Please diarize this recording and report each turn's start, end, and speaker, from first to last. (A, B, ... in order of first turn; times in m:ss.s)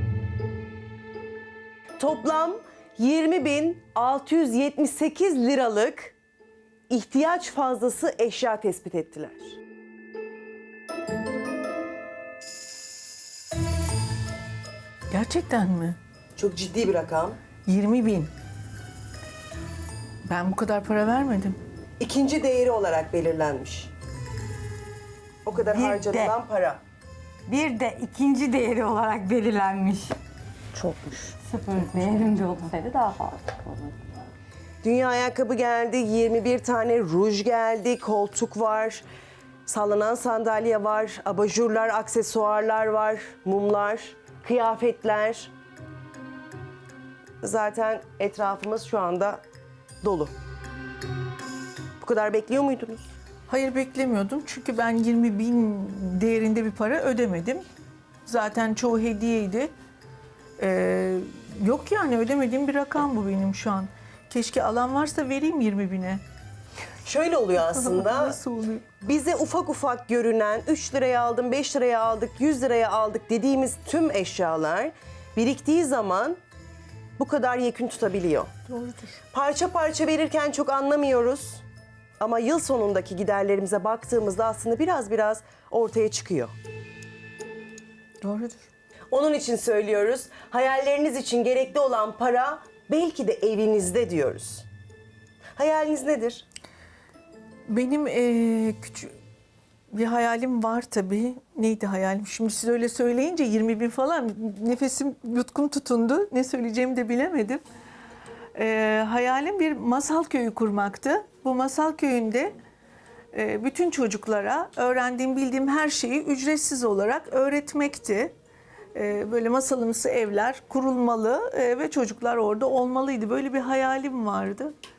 0:02.0-0:06.1 A
0:06.9-0:09.6 A
0:15.1-0:16.0 B
0:16.4-0:17.4 A
0:17.6-0:18.3 B
0:20.2-0:21.6 B
0:22.0-0:23.9 A
0:25.4-0:26.8 A
0:25.6-0:26.3 C
0:27.5-0:30.2 C
0:30.7-0:34.0 C
0:34.8-0:39.0 A
0:39.6-0:45.5 A
0:47.4-0:49.4 A
0:50.0-0:50.3 A
0:52.0-0:53.1 A
0:53.5-0:57.6 B
0:58.2-0:59.7 B
1:00.6-1:06.2 B
1:07.0-1:08.4 A
1:07.6-1:08.9 B
1:09.0-1:16.4 A
1:17.2-1:18.5 A
1:18.7-1:19.1 B
1:19.3-1:21.6 A
1:22.2-1:26.5 A
1:28.2-1:28.7 B
1:29.1-1:34.7 A
1:35.6-1:36.4 A
1:37.7-1:39.1 B
1:39.9-1:47.6 B
1:48.5-1:52.5 B
1:53.3-1:58.3 B
1:58.9-2:04.7 B